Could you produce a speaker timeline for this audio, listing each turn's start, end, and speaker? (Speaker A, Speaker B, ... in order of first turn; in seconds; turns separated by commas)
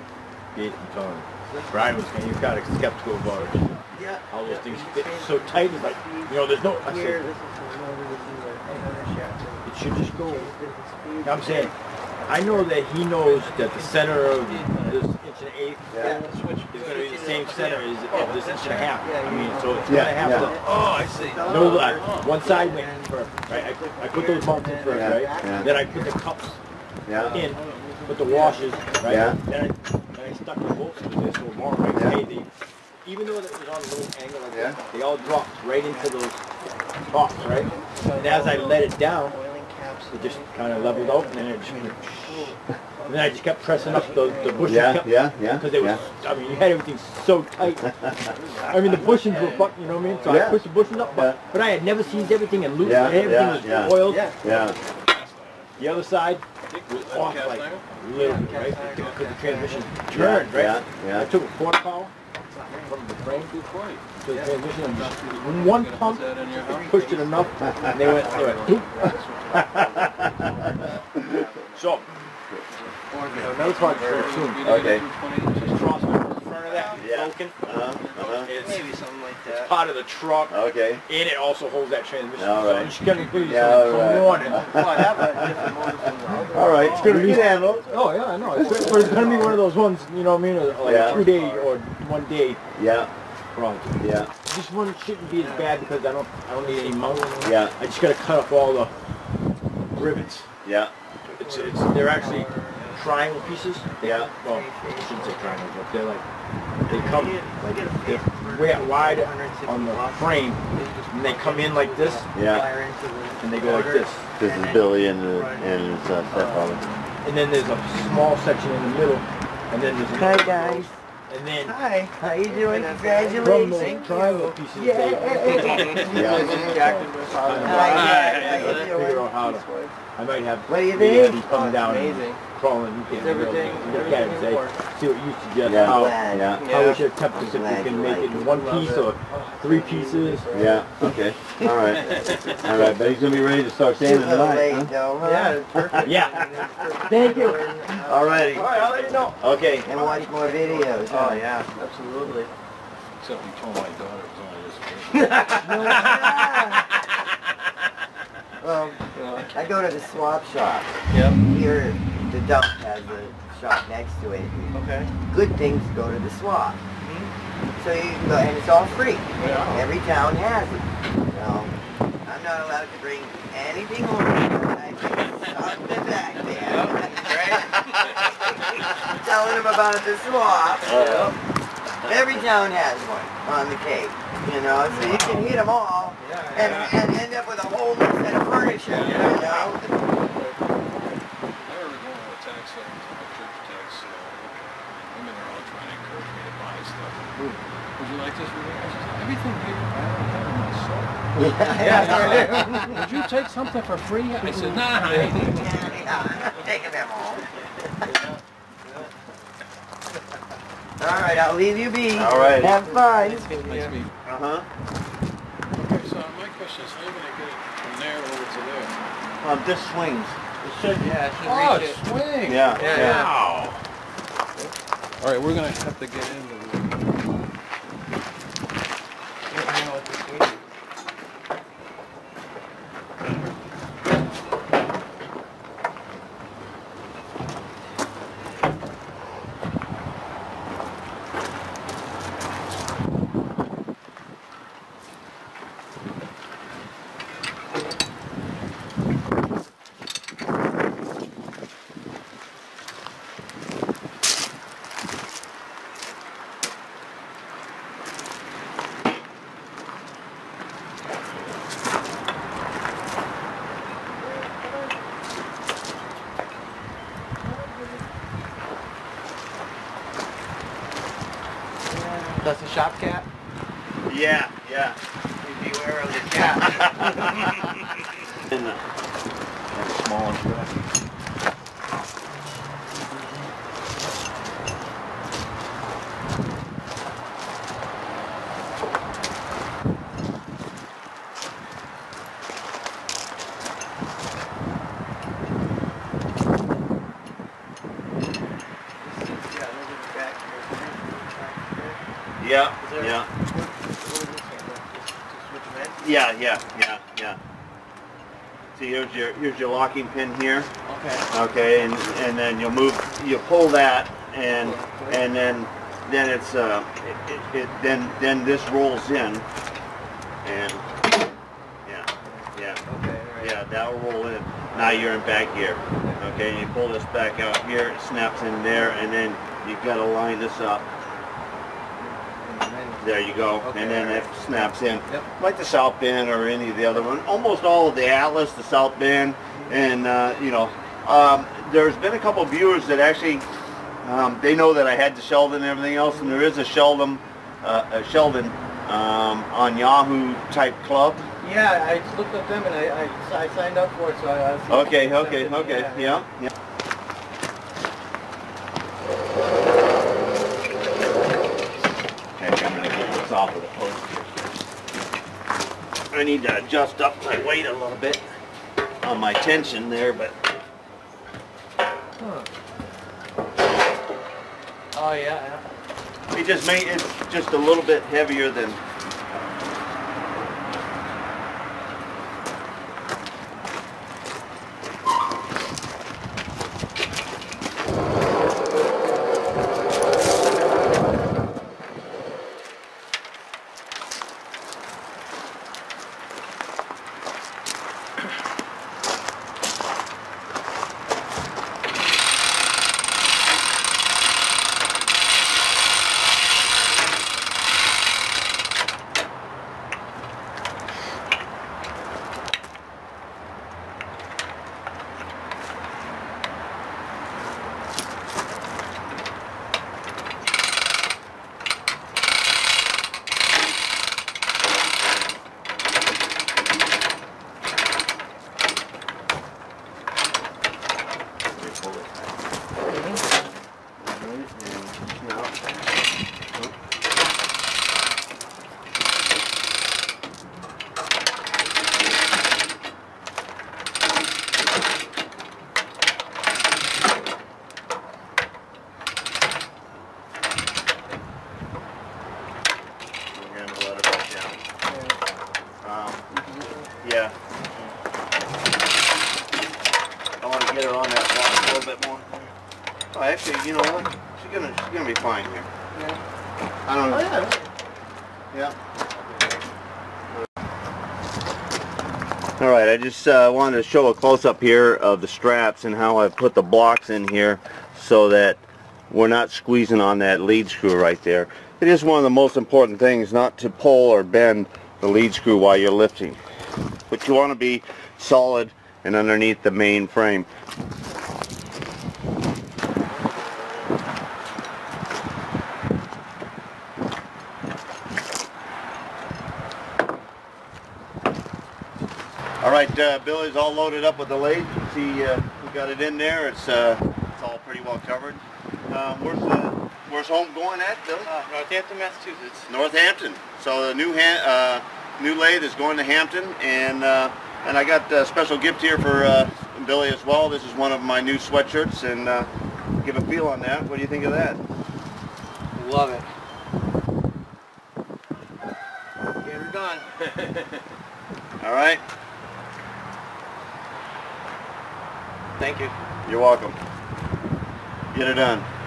Speaker A: 0.5-3.6, Speaker B: 1.5-1.8, Speaker B: 3.3-11.8, Speaker A: 4.3-7.2, Speaker A: 9.6-10.5, Speaker A: 11.2-11.7, Speaker A: 12.2-20.6, Speaker C: 12.5-14.9, Speaker B: 14.4-15.0, Speaker D: 15.9-16.2, Speaker B: 15.9-26.2, Speaker C: 16.1-18.2, Speaker D: 19.9-20.5, Speaker C: 20.5-22.4, Speaker E: 21.3-21.9, Speaker A: 21.4-26.6, Speaker D: 24.9-25.7, Speaker D: 27.1-27.4, Speaker B: 27.1-27.4, Speaker C: 27.2-29.1, Speaker A: 27.3-32.5, Speaker B: 28.2-28.7, Speaker D: 29.1-29.4, Speaker D: 31.9-32.2, Speaker A: 33.0-36.4, Speaker D: 34.5-34.8, Speaker B: 35.2-36.2, Speaker A: 37.1-39.4, Speaker B: 37.4-45.3, Speaker A: 40.1-42.5, Speaker A: 43.0-48.0, Speaker D: 44.6-46.0, Speaker C: 48.2-49.0, Speaker B: 48.6-52.3, Speaker A: 48.6-54.3, Speaker D: 50.2-50.6, Speaker D: 51.1-51.4, Speaker C: 52.0-53.1, Speaker D: 52.8-54.8, Speaker B: 53.0-54.5, Speaker C: 54.5-55.9, Speaker A: 55.8-62.1, Speaker C: 56.7-57.8, Speaker B: 58.1-60.0, Speaker D: 60.1-61.3, Speaker B: 62.3-63.0, Speaker A: 62.8-70.1, Speaker C: 63.2-64.0, Speaker B: 64.3-72.1, Speaker C: 65.1-67.0, Speaker C: 69.0-69.4, Speaker A: 71.7-72.1, Speaker C: 72.7-76.5, Speaker B: 73.1-74.6, Speaker A: 73.3-74.7, Speaker D: 74.6-75.0, Speaker A: 75.5-77.7, Speaker B: 76.7-77.0, Speaker D: 77.0-78.5, Speaker B: 77.7-79.7, Speaker A: 78.3-78.9, Speaker A: 79.5-84.6, Speaker D: 80.5-81.0, Speaker D: 82.4-85.7, Speaker C: 83.3-83.9, Speaker B: 84.0-89.6, Speaker D: 86.5-88.0, Speaker A: 86.8-92.6, Speaker D: 88.6-89.0, Speaker B: 90.8-91.7, Speaker D: 90.8-91.2, Speaker D: 92.7-93.1, Speaker A: 93.5-98.9, Speaker D: 94.0-94.3, Speaker B: 95.3-95.8, Speaker B: 96.5-97.7, Speaker D: 97.4-97.7, Speaker A: 99.9-100.5, Speaker D: 100.6-100.9, Speaker B: 101.2-101.8, Speaker A: 101.4-106.2, Speaker E: 102.0-103.0, Speaker C: 102.8-103.7, Speaker D: 104.0-104.3, Speaker E: 104.0-105.7, Speaker B: 106.9-108.2, Speaker A: 106.9-107.4, Speaker E: 106.9-110.4, Speaker A: 108.0-112.3, Speaker B: 110.7-112.2, Speaker E: 112.3-115.6, Speaker D: 112.3-112.7, Speaker A: 113.4-114.2, Speaker D: 114.3-116.8, Speaker B: 116.3-116.8, Speaker A: 117.2-121.8, Speaker E: 120.1-121.0, Speaker E: 121.7-124.1, Speaker B: 122.0-124.6, Speaker A: 123.4-129.6, Speaker E: 124.7-127.0, Speaker B: 125.5-129.9, Speaker D: 126.1-126.7, Speaker E: 127.6-129.2, Speaker C: 127.7-128.8, Speaker A: 130.1-140.5, Speaker E: 130.7-131.4, Speaker D: 130.9-131.4, Speaker B: 131.4-132.4, Speaker C: 133.1-133.7, Speaker B: 133.1-134.8, Speaker D: 135.6-136.7, Speaker E: 135.7-138.5, Speaker B: 136.6-137.0, Speaker B: 138.4-140.9, Speaker D: 140.5-144.9, Speaker C: 142.0-142.6, Speaker E: 144.0-145.6, Speaker B: 145.2-149.3, Speaker D: 145.7-146.2, Speaker A: 146.0-146.5, Speaker A: 147.0-147.6, Speaker D: 147.2-148.7, Speaker E: 148.5-151.6, Speaker D: 149.4-149.9, Speaker B: 149.9-152.5, Speaker C: 153.2-157.2, Speaker B: 155.1-155.9, Speaker E: 155.5-156.9, Speaker E: 158.6-166.8, Speaker B: 159.1-159.6, Speaker B: 161.1-161.4, Speaker B: 164.7-165.1, Speaker B: 167.0-167.3, Speaker E: 167.8-171.7, Speaker B: 169.4-169.9, Speaker C: 169.4-169.7, Speaker E: 172.2-181.0, Speaker B: 176.6-177.9, Speaker C: 177.7-178.2, Speaker D: 180.8-181.3, Speaker B: 180.8-181.3, Speaker E: 182.0-189.9, Speaker D: 182.1-182.4, Speaker B: 184.8-185.5, Speaker B: 186.2-186.9, Speaker C: 188.8-189.3, Speaker B: 188.9-191.2, Speaker C: 191.6-206.4, Speaker E: 201.3-203.0, Speaker B: 201.7-202.8, Speaker B: 205.1-205.5, Speaker E: 205.2-207.5, Speaker C: 208.1-208.3, Speaker E: 211.0-213.5, Speaker D: 212.1-212.8, Speaker B: 212.5-214.0, Speaker C: 213.4-214.1, Speaker D: 214.2-214.7, Speaker C: 215.7-219.0, Speaker D: 219.4-220.4, Speaker A: 220.6-220.9, Speaker B: 220.9-222.0, Speaker C: 221.4-223.8, Speaker D: 222.4-223.3, Speaker B: 222.8-223.3, Speaker C: 225.2-227.2, Speaker B: 229.5-230.7, Speaker E: 271.9-272.5, Speaker B: 272.4-273.3, Speaker D: 274.1-275.0, Speaker E: 275.4-277.4, Speaker B: 276.1-277.0, Speaker D: 276.7-277.6, Speaker D: 278.4-278.8, Speaker D: 279.7-280.9, Speaker E: 299.0-302.0, Speaker B: 299.2-300.4, Speaker D: 302.4-303.3, Speaker B: 302.8-306.0, Speaker D: 306.0-307.4, Speaker D: 308.8-310.7, Speaker B: 310.9-311.2, Speaker D: 311.3-319.4, Speaker B: 314.5-315.2, Speaker D: 320.4-320.8, Speaker D: 321.8-322.8, Speaker B: 322.2-323.6, Speaker D: 323.4-330.9, Speaker B: 324.7-325.2, Speaker B: 328.7-329.0, Speaker B: 332.0-333.1, Speaker D: 333.0-343.4, Speaker B: 333.6-335.3, Speaker D: 344.0-351.2, Speaker B: 346.1-346.4, Speaker B: 351.4-356.2, Speaker D: 354.7-356.5, Speaker D: 362.4-364.3, Speaker D: 366.1-368.2, Speaker D: 369.0-370.4, Speaker B: 372.2-372.5, Speaker B: 374.9-375.6, Speaker D: 376.3-378.8, Speaker D: 431.5-432.3, Speaker B: 432.8-433.2, Speaker D: 434.0-435.5, Speaker D: 453.3-454.6, Speaker B: 454.8-455.2, Speaker D: 455.8-456.3, Speaker B: 456.3-456.8, Speaker D: 457.0-457.3, Speaker D: 460.4-462.3, Speaker D: 463.1-465.7, Speaker B: 465.9-466.2, Speaker D: 466.9-467.3, Speaker B: 467.1-467.7, Speaker D: 472.6-486.4, Speaker D: 487.1-490.5, Speaker D: 502.6-511.3, Speaker B: 511.2-512.7, Speaker D: 512.7-522.5, Speaker D: 523.0-524.6, Speaker B: 525.8-526.3, Speaker B: 529.4-530.0, Speaker C: 530.3-530.6, Speaker D: 531.6-532.0, Speaker B: 535.6-535.9, Speaker D: 536.2-536.8, Speaker D: 538.1-538.7